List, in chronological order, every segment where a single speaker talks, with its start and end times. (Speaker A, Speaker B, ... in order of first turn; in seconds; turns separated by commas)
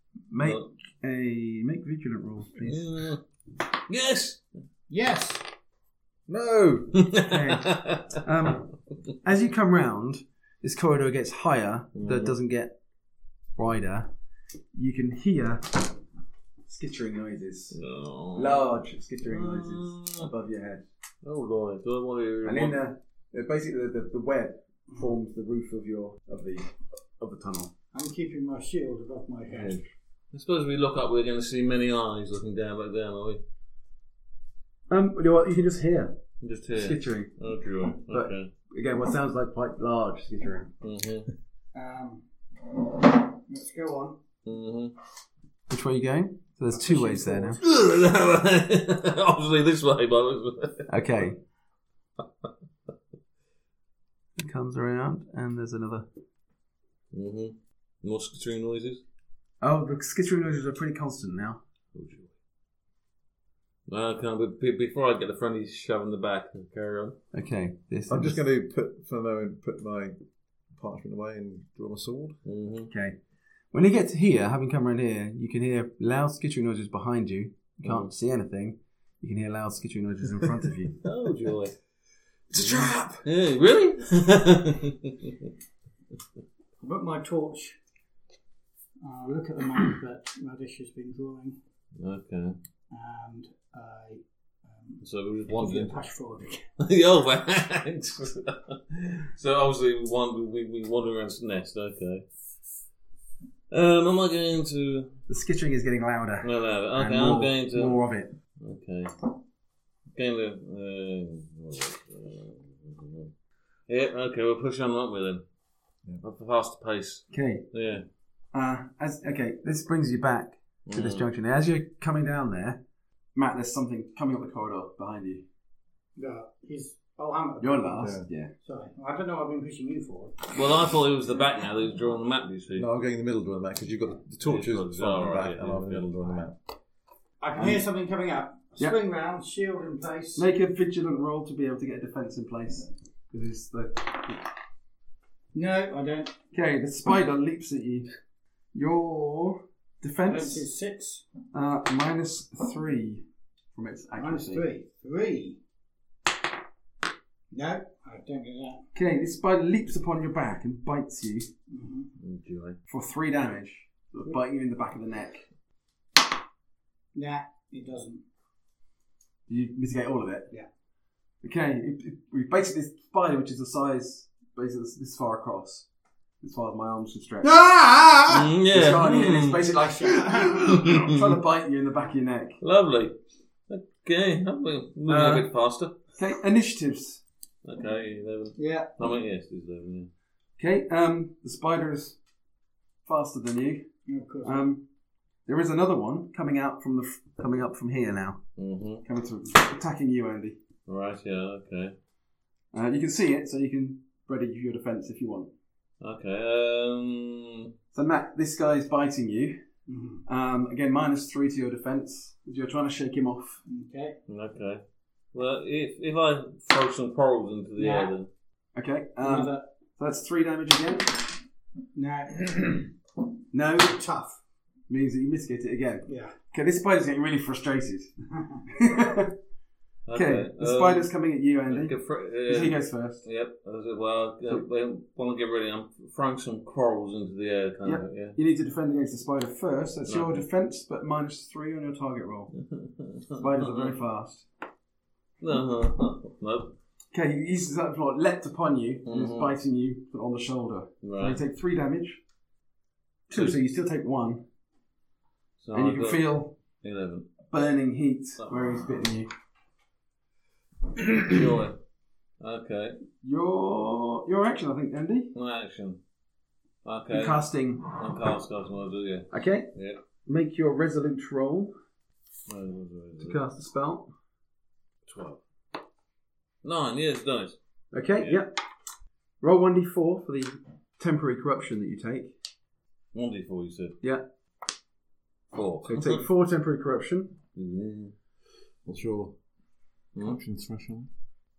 Speaker A: 0.3-2.9, Speaker B: 0.4-0.7, Speaker B: 2.6-3.2, Speaker B: 3.9-4.4, Speaker C: 4.9-5.5, Speaker A: 6.3-12.7, Speaker B: 7.0-8.2, Speaker B: 11.9-12.3, Speaker A: 13.6-14.1, Speaker A: 14.7-15.9, Speaker A: 16.7-17.8, Speaker B: 17.7-18.7, Speaker A: 18.3-20.9, Speaker B: 19.2-20.3, Speaker B: 21.2-22.8, Speaker A: 22.4-27.7, Speaker C: 27.9-29.8, Speaker B: 29.5-29.8, Speaker B: 30.3-33.4, Speaker A: 34.9-36.2, Speaker B: 36.4-38.5, Speaker A: 36.7-37.3, Speaker A: 38.0-40.7, Speaker B: 40.8-41.3, Speaker C: 41.7-42.2, Speaker C: 43.3-44.2, Speaker B: 44.4-44.9, Speaker A: 45.7-47.6, Speaker C: 46.7-47.6, Speaker B: 47.6-50.9, Speaker A: 50.9-51.4, Speaker A: 54.4-56.0, Speaker B: 57.1-59.0, Speaker A: 59.6-61.6, Speaker B: 61.9-62.3, Speaker B: 63.9-67.2, Speaker A: 67.3-68.4, Speaker D: 68.1-70.2, Speaker D: 70.7-72.4, Speaker B: 72.4-72.9, Speaker A: 72.9-73.2, Speaker A: 73.7-81.0, Speaker B: 81.0-81.8, Speaker D: 82.5-83.2, Speaker B: 83.2-85.5, Speaker C: 86.8-87.8, Speaker C: 89.0-91.6, Speaker B: 92.0-92.6, Speaker C: 92.9-96.6, Speaker B: 95.0-96.0, Speaker B: 96.8-102.3, Speaker B: 103.7-105.2, Speaker A: 105.3-108.3, Speaker B: 106.4-108.0, Speaker B: 108.6-109.3, Speaker B: 110.1-113.3, Speaker B: 113.9-115.4, Speaker B: 116.2-118.0, Speaker A: 117.3-117.7, Speaker A: 118.5-122.8, Speaker B: 120.8-121.2, Speaker A: 123.3-125.4, Speaker C: 126.2-130.4, Speaker A: 127.6-128.5, Speaker D: 128.0-128.2, Speaker B: 130.5-132.9, Speaker D: 132.7-136.6, Speaker B: 134.4-136.4, Speaker C: 137.4-140.4, Speaker A: 137.6-137.8, Speaker A: 140.3-144.4, Speaker C: 145.5-146.4, Speaker A: 146.5-148.1, Speaker A: 148.7-150.6, Speaker C: 150.2-151.2, Speaker A: 151.5-154.6, Speaker C: 154.2-155.6, Speaker C: 157.5-158.8, Speaker A: 158.9-161.5, Speaker C: 161.7-162.1, Speaker B: 162.2-162.8, Speaker A: 162.9-165.4, Speaker C: 167.1-168.2, Speaker A: 169.5-170.5, Speaker A: 171.4-175.8, Speaker A: 176.4-177.5, Speaker C: 177.4-178.5, Speaker B: 178.3-179.6, Speaker A: 178.7-182.6, Speaker C: 179.6-180.7, Speaker B: 182.6-183.2, Speaker B: 183.7-185.9, Speaker A: 185.1-185.5, Speaker A: 186.1-187.2, Speaker B: 187.6-190.1, Speaker C: 188.6-188.9, Speaker A: 190.6-192.2, Speaker A: 193.1-193.9, Speaker C: 194.1-194.6, Speaker A: 194.4-194.8, Speaker A: 195.4-198.4, Speaker B: 198.6-199.0, Speaker A: 199.0-200.6, Speaker B: 200.9-201.9, Speaker A: 202.7-205.5, Speaker B: 206.0-207.7, Speaker A: 207.9-209.6, Speaker C: 209.9-210.2, Speaker A: 210.2-213.6, Speaker C: 213.7-214.2, Speaker B: 214.3-214.8, Speaker B: 215.3-218.3, Speaker C: 217.8-218.1, Speaker A: 218.7-221.2, Speaker C: 219.2-219.7, Speaker C: 221.9-222.9, Speaker A: 223.5-224.0, Speaker C: 223.8-224.4, Speaker A: 224.9-228.1, Speaker C: 226.1-226.3, Speaker A: 228.7-229.3, Speaker B: 230.1-231.1, Speaker A: 230.1-231.9, Speaker B: 231.7-238.4, Speaker A: 232.4-233.2, Speaker A: 237.8-242.5, Speaker B: 240.1-240.4, Speaker B: 242.7-243.9, Speaker A: 243.4-244.4, Speaker B: 245.4-246.7, Speaker A: 247.1-252.2, Speaker B: 249.0-249.5, Speaker B: 251.0-251.4, Speaker A: 253.3-254.4, Speaker B: 253.3-253.6, Speaker B: 255.6-257.3, Speaker A: 255.7-256.5, Speaker A: 257.5-259.3, Speaker B: 261.2-261.8, Speaker B: 262.4-263.0, Speaker A: 263.2-265.3, Speaker B: 265.3-266.0, Speaker B: 266.8-270.0, Speaker A: 267.1-267.9, Speaker A: 269.3-269.7, Speaker A: 270.2-271.7, Speaker B: 272.5-273.4, Speaker A: 273.2-274.1, Speaker B: 275.1-275.4, Speaker B: 276.6-277.6, Speaker A: 277.9-278.5, Speaker A: 279.4-282.3, Speaker B: 283.1-284.0, Speaker B: 285.5-286.2, Speaker A: 285.8-287.4, Speaker B: 287.5-288.1, Speaker D: 288.9-289.4, Speaker D: 290.1-291.1